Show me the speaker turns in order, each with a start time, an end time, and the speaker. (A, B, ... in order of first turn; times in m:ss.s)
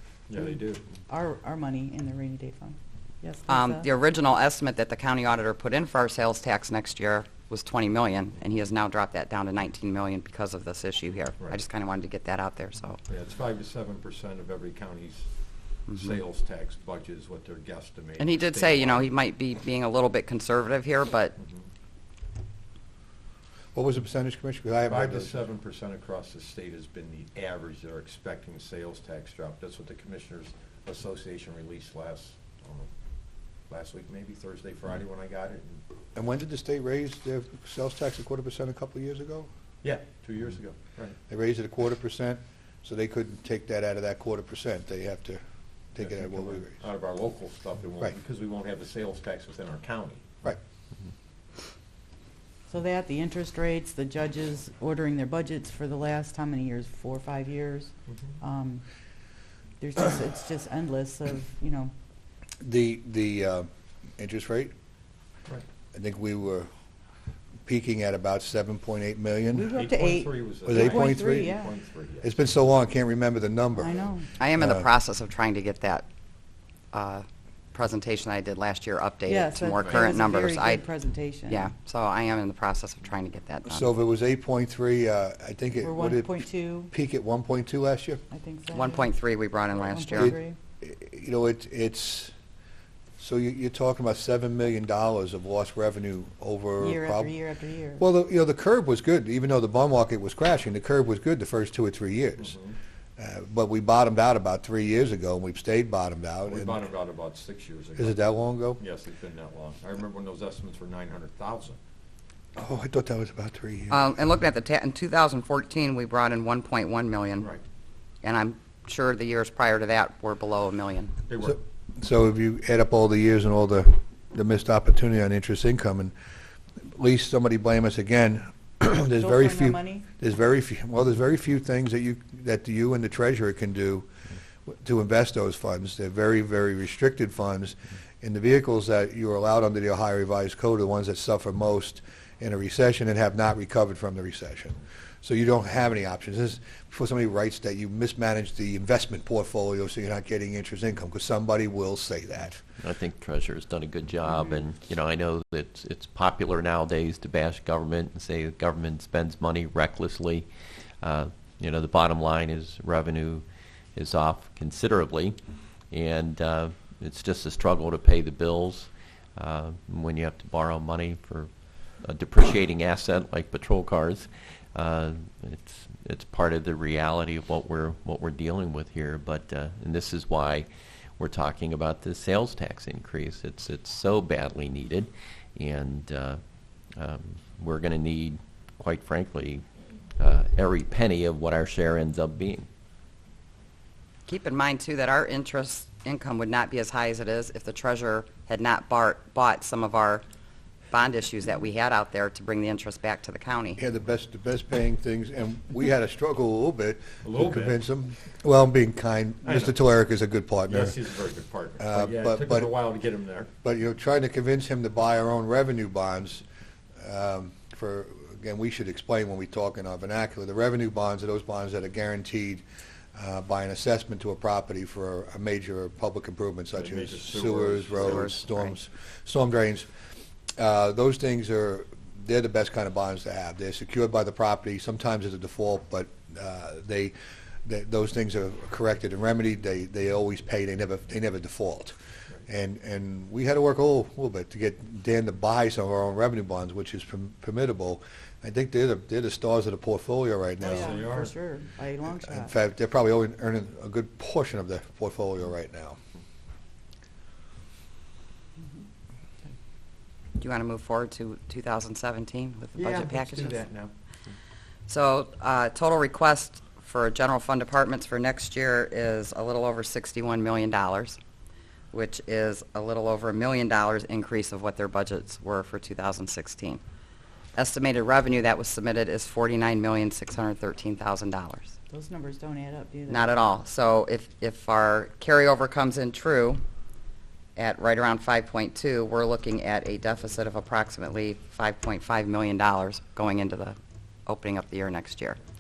0:00.3-0:00.8 A
0:01.1-0:03.9 B
0:03.5-0:13.0 C
0:13.1-0:15.3 A
0:15.9-0:16.2 C
0:15.9-0:19.1 A
0:18.2-0:21.4 C
0:21.4-0:21.6 A
0:23.8-0:25.4 D
0:24.9-0:32.9 A
0:33.7-0:35.8 A
0:36.2-0:39.5 D
0:39.8-0:41.2 A
0:41.3-0:45.4 D
0:45.9-0:46.8 D
0:46.0-0:50.4 A
0:52.7-0:58.8 B
0:58.1-0:58.3 A
0:59.8-1:01.9 B
1:02.6-1:04.7 D
1:05.9-1:06.7 D
1:07.7-1:09.7 D
1:09.5-1:11.7 B
1:09.7-1:12.3 A
1:10.6-1:11.6 D
1:12.2-1:14.0 D
1:13.8-1:14.0 A
1:13.8-1:14.4 B
1:14.4-1:16.1 C
1:14.5-1:14.9 D
1:16.9-1:20.8 C
1:19.2-1:21.7 B
1:21.5-1:23.9 C
1:23.7-1:28.2 D
1:25.8-1:26.9 B
1:28.3-1:29.2 B
1:28.7-1:30.4 C
1:29.9-1:30.6 B
1:30.2-1:32.3 D
1:33.2-1:37.3 D
1:36.8-1:38.1 B
1:38.0-1:42.6 D
1:42.4-1:42.8 A
1:43.2-1:46.8 D
1:46.4-1:51.8 A
1:48.0-1:48.8 D
1:52.6-1:54.0 D
1:53.9-1:57.5 C
1:58.2-2:01.2 C
2:01.3-2:01.6 A
2:01.4-2:06.1 D
2:06.9-2:14.1 D
2:09.2-2:10.1 B
2:14.7-2:32.6 D
2:32.8-2:40.5 E
2:41.0-2:43.4 E
2:44.0-2:45.4 E
2:45.9-2:51.5 E
2:52.0-3:00.7 E
3:01.2-3:06.4 E
3:07.0-3:09.6 E
3:10.2-3:12.7 E
3:14.3-3:20.2 C
3:20.9-3:23.8 C
3:23.8-3:31.1 D
3:27.2-3:27.8 A
3:29.4-3:29.8 A
3:30.7-3:33.5 A
3:31.8-3:32.8 D
3:33.6-3:36.4 D
3:37.0-3:42.6 D
3:43.2-3:49.9 D
3:46.7-3:48.4 A
3:48.0-3:48.8 C
3:50.6-4:02.0 D
4:02.5-4:11.1 D
4:10.6-4:12.5 B
4:10.7-4:11.4 A
4:12.2-4:16.0 D
4:20.4-4:23.6 C
4:22.8-4:23.9 A
4:24.9-4:31.2 C
4:31.9-4:36.8 C
4:37.6-4:41.7 C
4:41.9-4:43.3 B
4:43.1-4:46.6 C
4:47.6-4:55.4 C